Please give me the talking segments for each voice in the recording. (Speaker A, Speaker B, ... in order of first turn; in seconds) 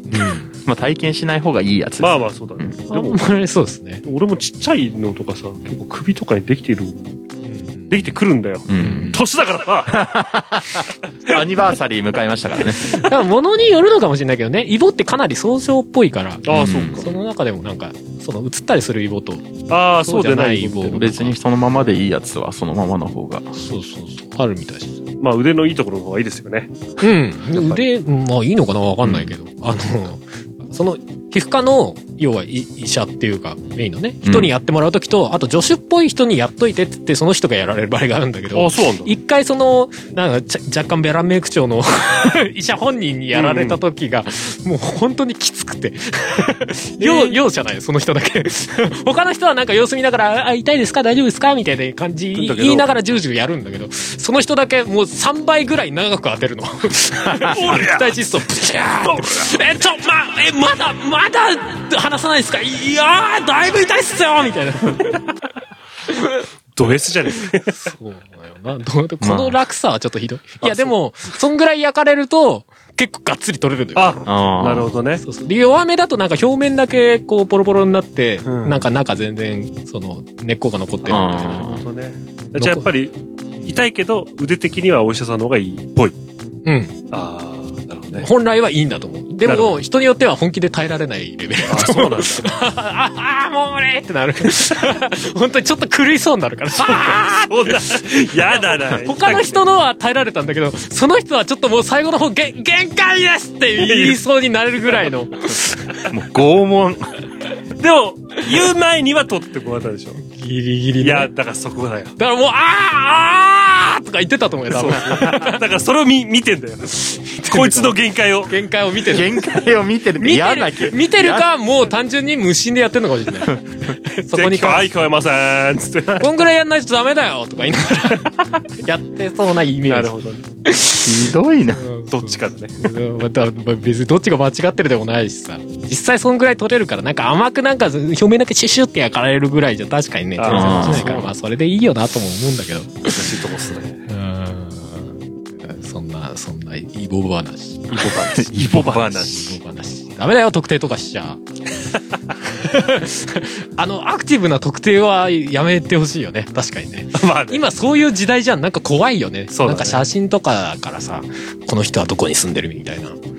Speaker A: 0.1-0.5, 2.9-4.0, 7.5-8.1, 8.8-9.2, 12.9-21.4, 23.5-25.0, 27.0-65.3, 66.1-66.4, 67.7-74.3, 75.2-81.6, 82.6-82.9, 86.7-86.9, 88.2-98.0, 99.0-105.7, 110.2-111.3, 112.2-115.6, 117.0-118.0, 118.5-119.6, 120.2-124.9, 126.2-130.1, 130.7-143.4, 144.1-151.4, 152.5-163.2
Speaker B: 0.7-2.7, 8.7-9.2, 9.9-13.1, 16.5-17.1, 20.9-23.5, 29.0-29.3, 34.2-34.5, 69.2-69.6, 74.3-74.9, 81.1-81.8, 106.0-107.0, 119.1-121.5, 131.0-131.8, 140.5-141.3, 148.4-149.3
Speaker C: 2.0-3.3, 4.0-7.2, 7.9-10.1, 16.4-17.1, 19.7-21.1, 25.2-26.8, 38.5-39.1, 43.3-43.8, 47.0-47.4, 52.4-52.9, 57.4-58.2, 66.8-67.8, 70.6-70.9, 74.0-75.2, 78.5-78.8, 81.1-86.2, 87.1-88.3, 89.5-89.8, 91.7-92.4, 96.8-99.6, 103.8-104.2, 107.8-110.2, 111.0-112.2, 114.7-118.5, 124.3-126.3, 129.9-130.4, 132.1-132.9, 140.4-141.2, 143.1-144.0, 147.9-149.6, 157.2-157.6, 159.5-160.1